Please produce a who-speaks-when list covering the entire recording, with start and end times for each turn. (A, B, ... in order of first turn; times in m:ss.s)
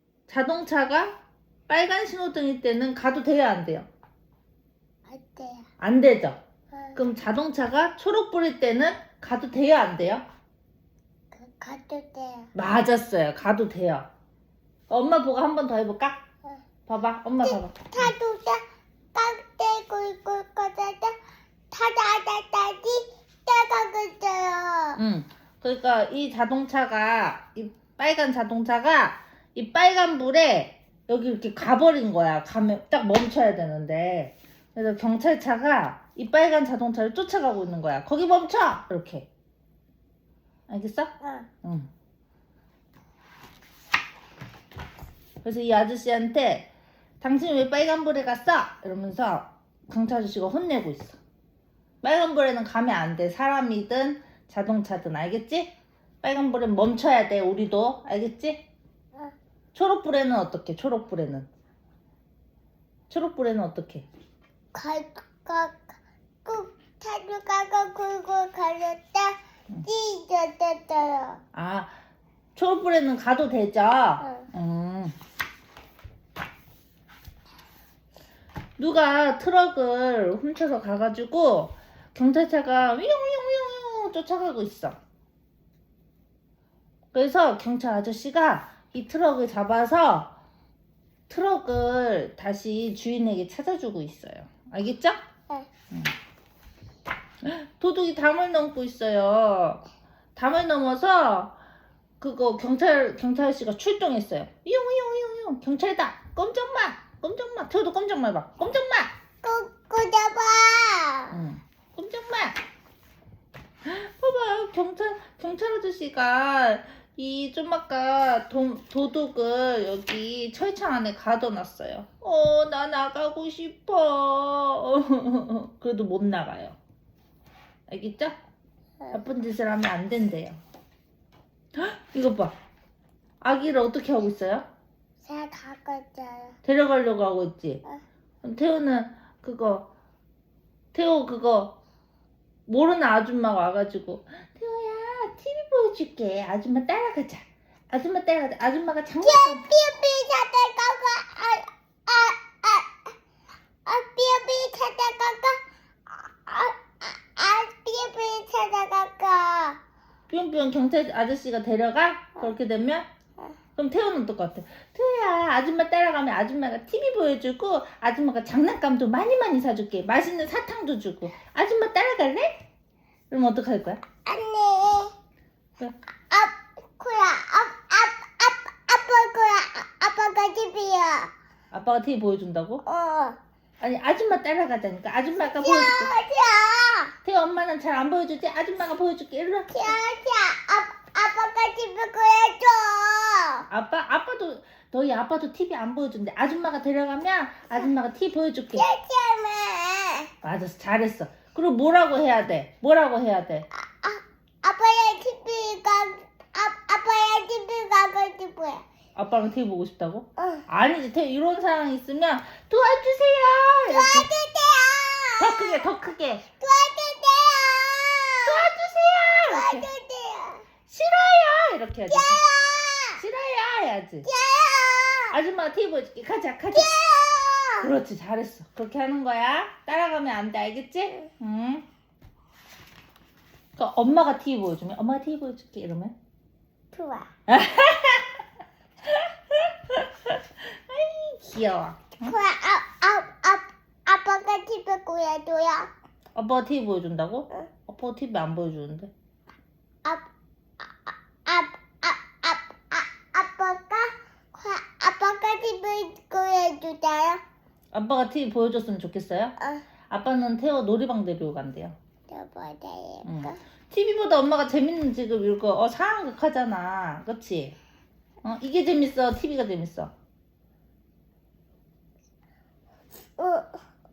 0:00.3-0:01.2 A
0:01.7-0:03.9 A
0:05.1-0:05.7 B
0:05.8-0:06.4 A
0:06.7-0:07.0 B
0:07.0-0:10.2 A
0:11.3-0:12.5 B
0:12.6-0:14.1 A
0:14.9-0:16.2 A
0:16.9-0:18.2 A
0:17.4-0:18.6 B
0:19.1-0:21.2 B
0:21.7-0:25.0 B
0:25.0-0:39.3 A
0:40.7-0:41.9 A
0:41.2-0:41.5 B
0:45.4-0:46.7 A
0:47.2-0:51.2 A
0:52.0-0:58.7 A
0:59.7-1:01.5 A
1:03.1-1:04.1 A
1:04.7-1:11.4 B
1:11.5-1:12.0 A
1:12.6-1:15.2 A
1:14.2-1:14.5 B
1:18.8-1:25.0 A
1:27.1-1:30.4 A
1:31.3-1:35.2 A
1:37.4-1:41.6 A
1:42.2-1:49.1 A
1:49.4-1:51.4 B
1:51.3-1:52.6 A
1:53.8-2:06.8 A
2:07.9-2:08.4 A
2:09.0-2:09.3 B
2:09.1-2:10.6 A
2:11.8-2:12.6 A
2:13.4-2:14.7 A
2:15.2-2:16.6 B
2:16.6-2:17.8 A
2:18.4-2:19.9 A
2:20.9-2:21.8 A
2:22.7-2:29.6 A
2:29.2-2:33.2 B
2:33.8-2:39.8 B
2:40.3-2:43.0 A
2:43.8-2:52.6 A
2:53.3-2:54.0 A
2:54.2-2:55.1 B
2:56.3-3:01.3 B
3:01.7-3:02.8 A
3:02.8-3:03.4 B
3:03.8-3:06.1 A
3:05.4-3:07.2 B
3:07.2-3:10.0 A
3:09.7-3:13.7 B
3:13.7-3:18.8 A
3:18.8-3:20.3 B
3:20.4-3:23.7 A
3:23.7-3:28.8 B
3:29.2-3:34.3 A
3:30.4-3:30.7 B
3:33.9-3:35.9 B
3:35.4-3:36.4 A
3:36.6-3:38.6 B
3:38.5-3:39.9 A
3:39.5-3:40.7 B
3:40.9-3:42.4 A
3:42.1-3:43.2 B
3:43.2-3:44.3 A
3:44.2-3:45.4 B
3:45.3-3:46.9 A
3:46.7-3:47.9 B
3:47.8-3:51.8 A
3:53.8-3:56.2 A
3:56.9-3:57.3 B
3:57.5-3:58.4 A
3:59.1-4:02.4 A
4:02.2-4:05.9 B
4:06.4-4:09.1 A
4:10.8-4:17.4 B
4:17.9-4:19.5 A
4:19.6-4:19.8 B
4:20.1-4:22.0 A
4:22.3-4:23.6 B
4:23.2-4:27.8 A
4:28.4-4:30.1 A
4:33.4-4:33.8 B